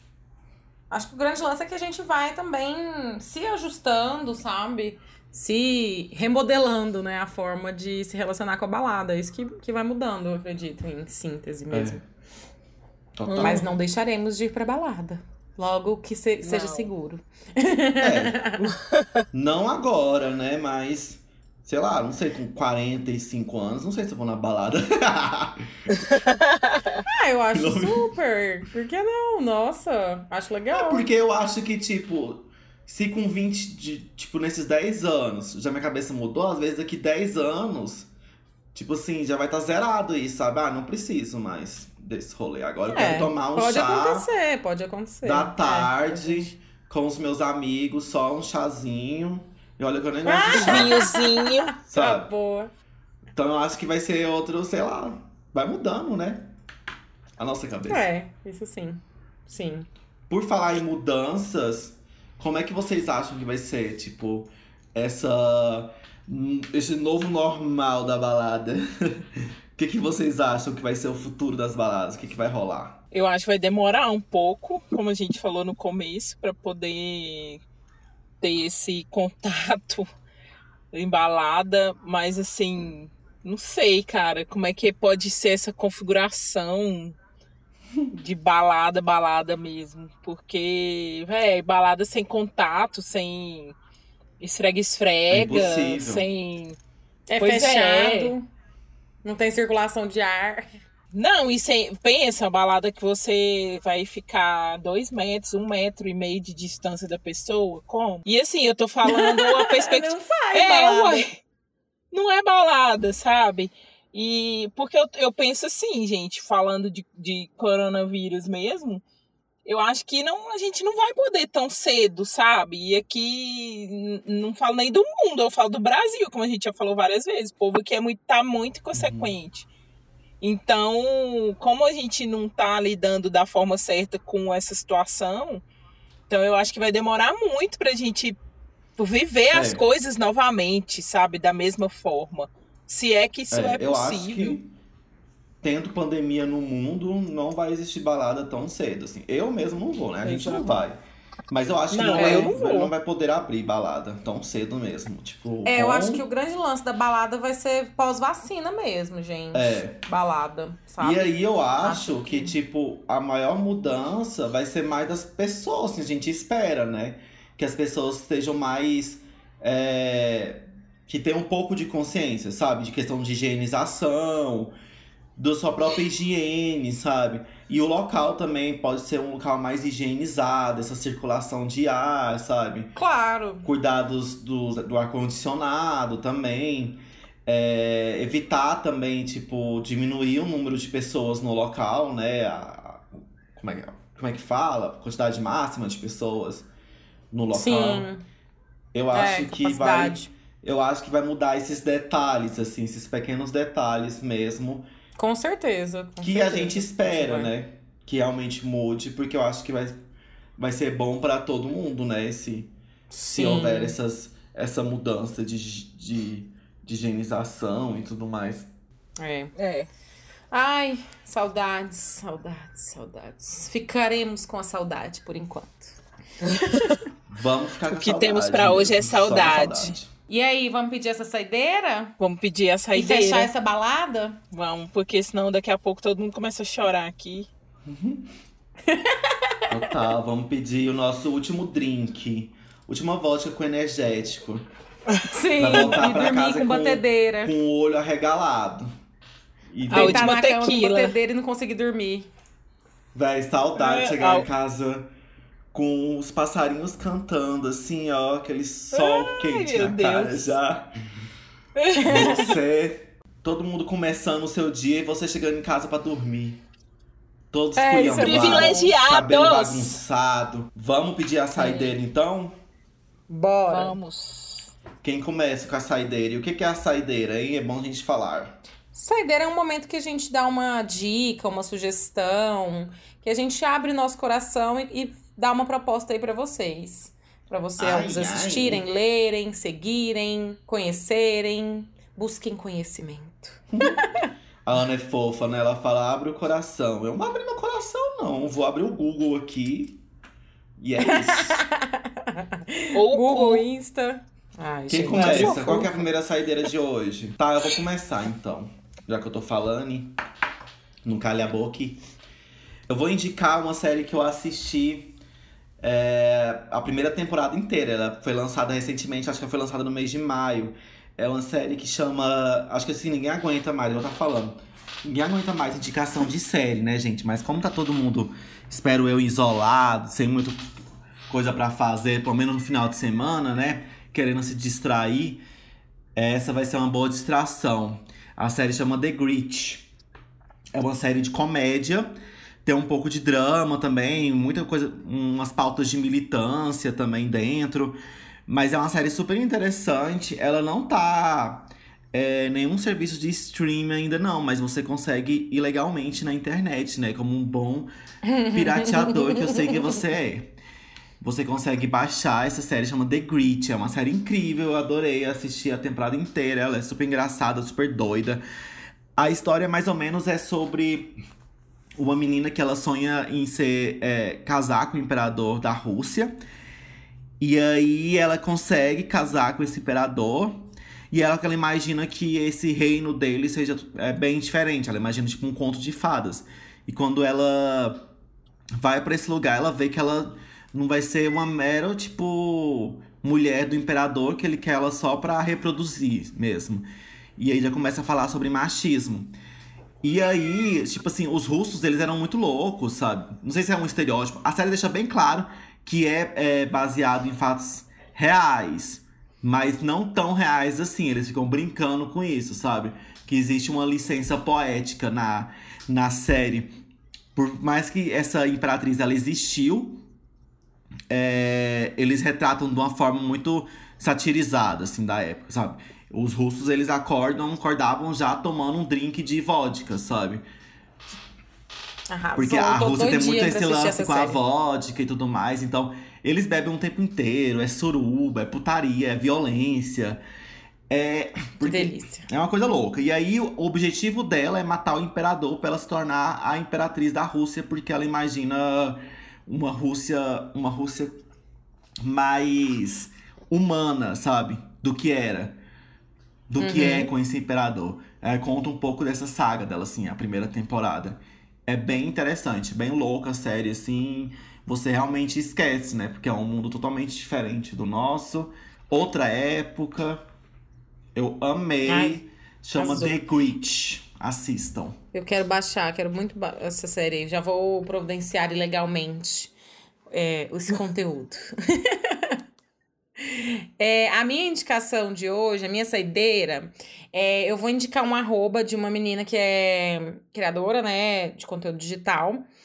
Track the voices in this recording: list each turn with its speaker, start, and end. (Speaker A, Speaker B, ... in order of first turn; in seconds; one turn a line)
Speaker A: 0.9-12.0
Speaker B: 11.7-12.0
Speaker B: 13.2-13.7
Speaker A: 13.3-18.7
Speaker C: 13.3-13.6
Speaker C: 16.4-16.9
Speaker B: 18.0-18.4
Speaker C: 18.6-19.2
Speaker B: 19.3-25.6
Speaker C: 26.1-27.0
Speaker A: 27.1-31.0
Speaker B: 27.5-28.1
Speaker B: 30.7-38.1
Speaker B: 38.7-44.3
Speaker A: 42.9-46.5
Speaker B: 45.2-51.0
Speaker A: 50.2-52.7
Speaker C: 50.5-51.7
Speaker B: 51.9-52.3
Speaker B: 53.3-56.5
Speaker B: 57.4-58.0
Speaker A: 57.9-59.9
Speaker B: 60.3-73.0
Speaker C: 73.1-77.6
Speaker C: 78.4-80.0
Speaker C: 80.9-87.2
Speaker C: 88.1-93.8
Speaker C: 94.4-96.8
Speaker B: 95.3-96.3
Speaker A: 97.3-98.5
Speaker C: 97.4-98.3
Speaker A: 99.2-100.7
Speaker C: 101.1-111.4
Speaker A: 109.0-111.2
Speaker C: 112.1-119.0
Speaker C: 119.6-129.7
Speaker B: 128.9-129.3
Speaker C: 130.4-135.6
Speaker C: 136.3-138.4
Speaker C: 139.0-144.6
Speaker B: 139.5-139.8
Speaker B: 143.5-144.7
Speaker B: 145.6-151.0
Speaker C: 150.2-150.7
Speaker B: 151.5-156.2
Speaker C: 151.9-152.9
Speaker A: 152.1-152.5
Speaker A: 155.6-162.5
Speaker B: 159.5-160.0
Speaker B: 161.0-174.7
Speaker B: 175.4-182.9
Speaker A: 182.9-183.7
Speaker B: 183.6-196.7
Speaker B: 197.3-198.1
Speaker A: 197.5-198.2
Speaker B: 198.9-204.9
Speaker A: 199.1-200.3
Speaker A: 205.2-207.5
Speaker B: 206.2-210.0
Speaker B: 210.6-212.7
Speaker A: 213.1-213.9
Speaker B: 213.3-218.7
Speaker A: 219.2-219.5
Speaker C: 219.6-219.9
Speaker A: 220.5-226.0
Speaker A: 226.7-227.0
Speaker B: 227.3-230.1
Speaker C: 227.9-229.9
Speaker A: 230.3-232.1
Speaker C: 232.2-233.5
Speaker A: 232.9-234.4
Speaker C: 234.5-237.5
Speaker B: 237.9-238.3
Speaker A: 238.9-239.5
Speaker B: 239.7-244.7
Speaker C: 245.1-245.9
Speaker A: 245.3-247.5
Speaker B: 245.6-248.9
Speaker B: 249.7-250.4
Speaker A: 249.9-252.3
Speaker C: 249.9-251.1
Speaker B: 253.1-255.1
Speaker C: 253.8-254.4
Speaker B: 255.7-260.9
Speaker C: 258.9-260.6
Speaker C: 261.8-262.4
Speaker A: 261.9-262.5
Speaker B: 262.1-266.6
Speaker B: 267.5-272.5
Speaker A: 267.8-268.9
Speaker C: 268.2-270.0
Speaker A: 271.6-272.0
Speaker A: 273.3-274.0
Speaker C: 273.7-274.7
Speaker B: 275.0-278.6
Speaker A: 278.9-294.3
Speaker B: 287.8-288.8
Speaker B: 293.7-294.0
Speaker B: 294.6-300.0
Speaker B: 300.8-301.6
Speaker A: 301.0-306.1
Speaker C: 302.9-303.6
Speaker B: 304.9-310.1
Speaker C: 305.1-305.8
Speaker B: 311.0-312.0
Speaker B: 312.9-315.1
Speaker B: 315.8-330.6
Speaker B: 331.3-335.4
Speaker B: 336.1-339.9
Speaker B: 340.7-342.1
Speaker B: 342.6-357.9
Speaker A: 358.3-359.3
Speaker B: 358.5-360.6
Speaker B: 361.2-368.4
Speaker B: 369.2-371.2
Speaker B: 372.0-376.4
Speaker B: 377.4-388.1
Speaker B: 388.8-399.3
Speaker B: 400.0-416.7
Speaker B: 417.3-420.0
Speaker B: 421.1-430.4
Speaker A: 432.1-434.4
Speaker B: 432.4-440.2
Speaker B: 440.9-451.2
Speaker A: 441.6-442.3
Speaker B: 452.0-455.6
Speaker B: 456.5-470.2
Speaker A: 456.6-457.1
Speaker B: 471.1-475.0
Speaker A: 471.9-472.2
Speaker A: 472.8-473.2
Speaker A: 475.1-479.5
Speaker A: 480.1-482.4
Speaker A: 483.2-492.4